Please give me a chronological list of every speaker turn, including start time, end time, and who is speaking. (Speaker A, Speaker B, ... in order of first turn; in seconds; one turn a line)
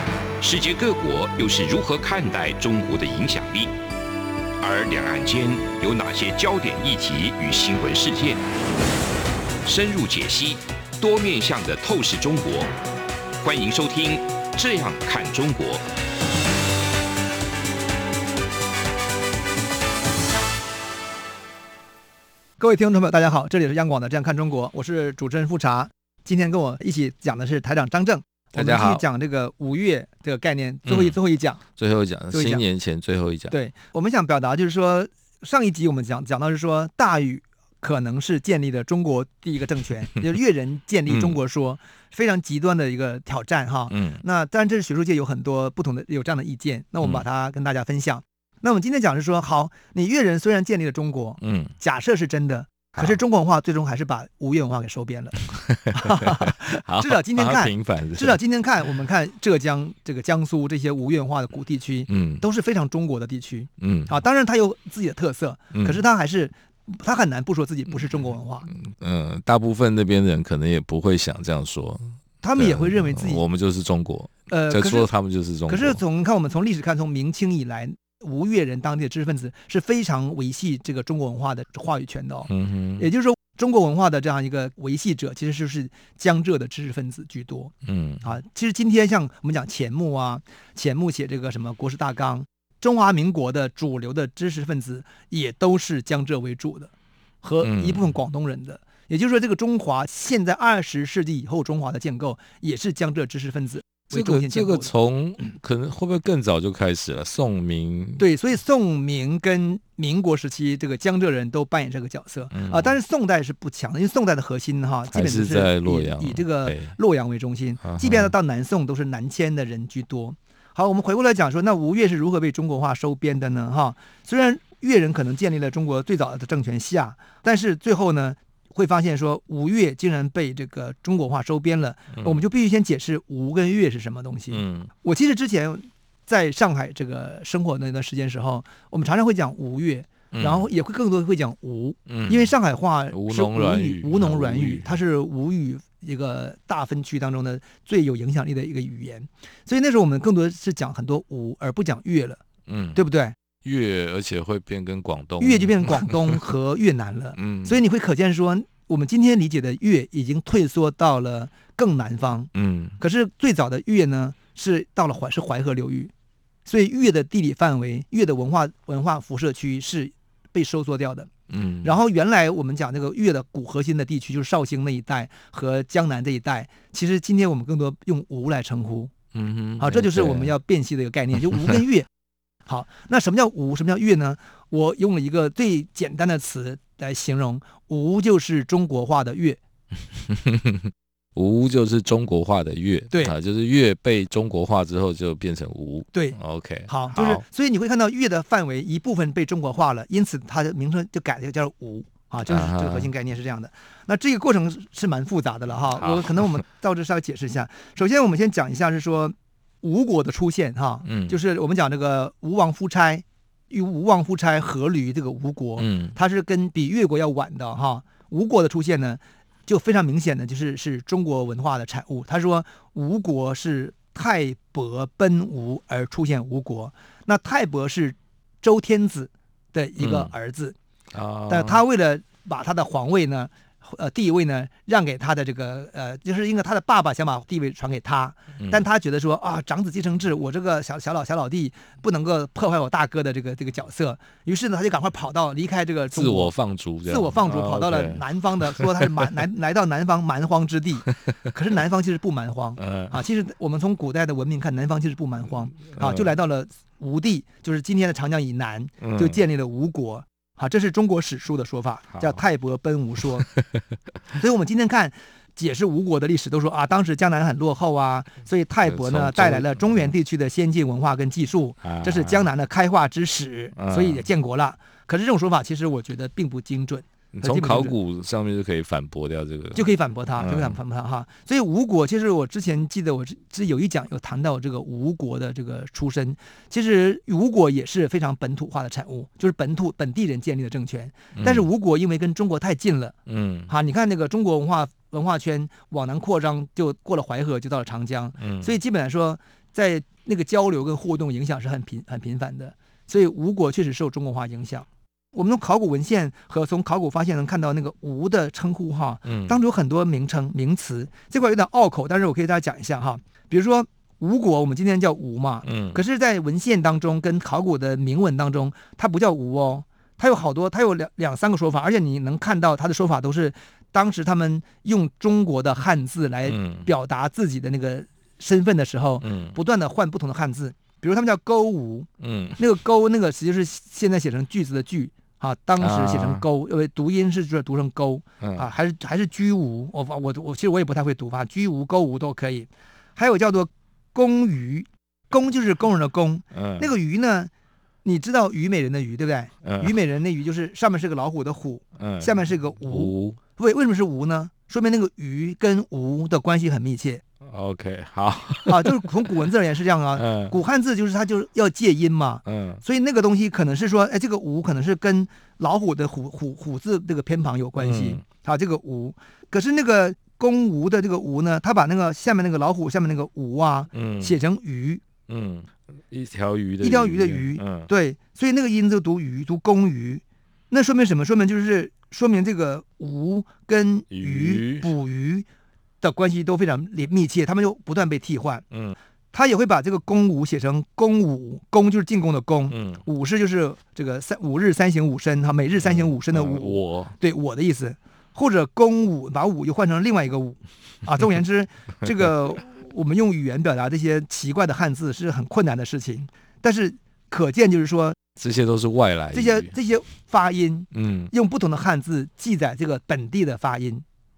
Speaker A: 0.4-3.7
Speaker A: 4.6-8.4
Speaker A: 9.7-12.7
Speaker A: 13.4-15.8
Speaker B: 22.6-31.6
Speaker C: 28.5-29.1
Speaker C: 30.9-31.2
Speaker C: 31.7-33.5
Speaker B: 32.3-32.6
Speaker B: 33.5-68.7
Speaker C: 41.1-41.4
Speaker C: 43.9-44.2
Speaker C: 51.4-51.7
Speaker C: 55.5-58.4
Speaker C: 62.1-62.4
Speaker C: 63.8-64.1
Speaker C: 65.7-66.0
Speaker C: 68.8-76.0
Speaker B: 72.4-73.4
Speaker B: 74.5-75.1
Speaker B: 75.7-96.9
Speaker C: 82.5-83.1
Speaker C: 87.8-88.3
Speaker B: 97.4-104.9
Speaker C: 97.6-98.1
Speaker C: 104.1-108.2
Speaker B: 108.2-152.4
Speaker C: 112.5-113.0
Speaker C: 115.1-116.9
Speaker C: 117.8-118.3
Speaker C: 132.2-132.4
Speaker C: 134.5-134.9
Speaker C: 140.3-140.7
Speaker C: 142.1-142.5
Speaker C: 143.1-145.0
Speaker C: 152.7-153.0
Speaker B: 152.9-153.3
Speaker C: 153.6-156.4
Speaker B: 155.4-166.1
Speaker C: 157.4-157.8
Speaker C: 162.5-163.0
Speaker B: 166.7-171.3
Speaker C: 171.5-172.0
Speaker B: 171.8-179.1
Speaker C: 179.3-180.5
Speaker B: 179.8-182.1
Speaker B: 182.7-189.6
Speaker C: 190.2-197.4
Speaker B: 196.1-230.8
Speaker C: 202.5-203.1
Speaker C: 206.0-206.5
Speaker C: 211.1-211.4
Speaker C: 215.8-216.2
Speaker C: 230.0-230.3
Speaker C: 231.1-231.8
Speaker B: 231.5-246.5
Speaker C: 238.6-238.8
Speaker C: 246.1-249.3
Speaker B: 247.1-263.5
Speaker C: 252.8-253.2
Speaker C: 255.9-256.3
Speaker C: 259.0-259.4
Speaker B: 264.4-278.0
Speaker C: 268.9-270.1
Speaker C: 271.8-272.5
Speaker C: 273.8-274.3
Speaker C: 277.3-280.8
Speaker B: 279.8-293.2
Speaker C: 291.4-291.7
Speaker C: 293.3-293.7
Speaker B: 293.7-347.5
Speaker C: 298.4-298.7
Speaker C: 309.3-309.6
Speaker C: 315.6-316.0
Speaker C: 326.5-326.9
Speaker C: 329.2-329.6
Speaker C: 332.2-332.6
Speaker C: 335.8-336.4
Speaker C: 338.4-338.7
Speaker C: 346.5-346.9
Speaker B: 348.0-357.2
Speaker C: 349.6-349.9
Speaker C: 352.0-353.4
Speaker C: 357.4-359.3
Speaker B: 358.7-375.0
Speaker C: 360.1-360.5
Speaker C: 362.5-362.8
Speaker C: 367.8-368.2
Speaker C: 373.9-374.3
Speaker C: 375.3-377.9
Speaker B: 376.8-385.5
Speaker C: 384.1-384.9
Speaker B: 386.0-388.6
Speaker B: 389.3-408.2
Speaker C: 392.7-393.0
Speaker C: 395.8-397.2
Speaker C: 408.4-409.8
Speaker B: 409.3-414.0
Speaker C: 410.9-411.3